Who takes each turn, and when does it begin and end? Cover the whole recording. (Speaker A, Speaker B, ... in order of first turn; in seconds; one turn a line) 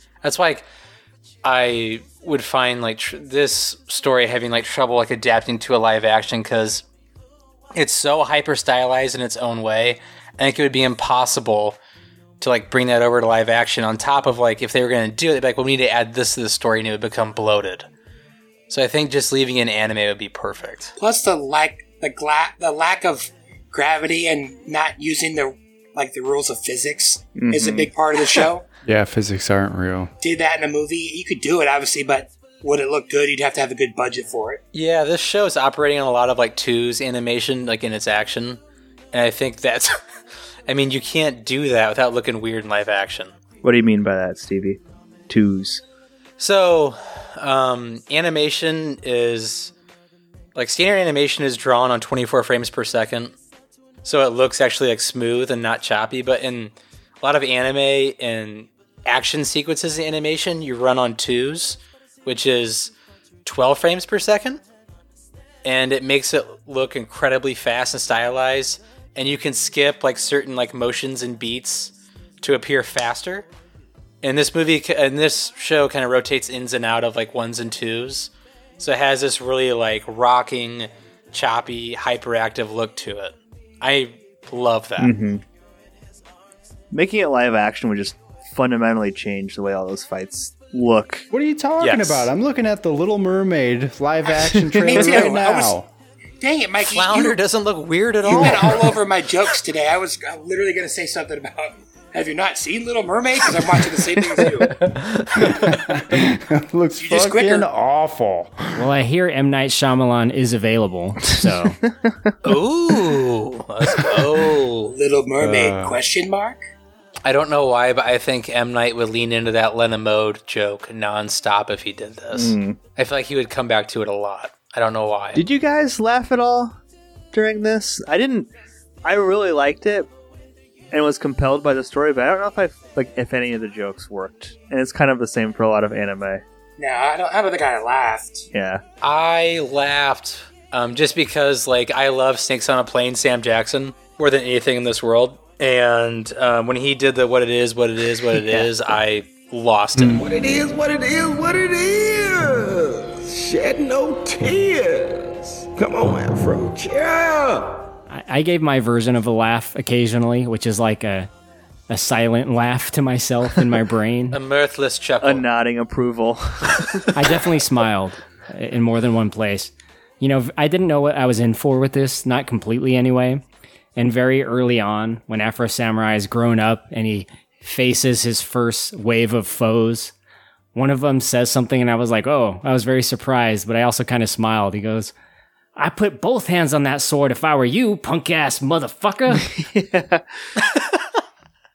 Speaker A: 0.2-0.7
Speaker A: 1.4-6.8
Speaker A: 7.8-11.8
Speaker A: 12.4-17.9
Speaker A: 18.7-20.9
Speaker B: 21.0-28.7
Speaker C: 27.3-27.9
Speaker D: 28.9-30.1
Speaker B: 30.2-34.6
Speaker A: 34.7-38.6
Speaker A: 39.1-40.0
Speaker A: 40.7-43.4
Speaker C: 43.6-45.8
Speaker A: 46.4-49.7
Speaker A: 50.5-53.3
Speaker A: 54.0-62.9
Speaker A: 63.5-64.6
Speaker A: 65.6-73.5
Speaker A: 74.2-85.2
Speaker C: 85.0-85.4
Speaker C: 86.9-91.3
Speaker D: 91.3-95.9
Speaker A: 91.8-92.3
Speaker C: 94.4-95.2
Speaker B: 94.8-95.8
Speaker B: 96.4-97.4
Speaker A: 96.9-99.0
Speaker B: 98.2-104.8
Speaker A: 105.0-105.8
Speaker D: 105.4-108.9
Speaker B: 107.0-107.7
Speaker E: 108.8-111.8
Speaker C: 111.4-112.3
Speaker A: 112.4-114.9
Speaker B: 114.9-116.6
Speaker D: 115.4-116.0
Speaker A: 117.2-125.4
Speaker C: 122.3-122.8
Speaker C: 125.3-126.8
Speaker C: 127.3-128.5
Speaker C: 129.1-130.1
Speaker C: 130.9-136.4
Speaker B: 136.8-138.5
Speaker C: 138.5-138.8
Speaker A: 139.0-150.2
Speaker C: 150.0-150.2
Speaker F: 150.1-157.8
Speaker E: 158.1-161.3
Speaker E: 161.9-164.4
Speaker A: 164.3-165.4
Speaker C: 165.2-167.1
Speaker E: 167.2-173.4
Speaker E: 174.0-180.1
Speaker E: 180.8-185.1
Speaker E: 185.8-189.5
Speaker C: 189.5-190.2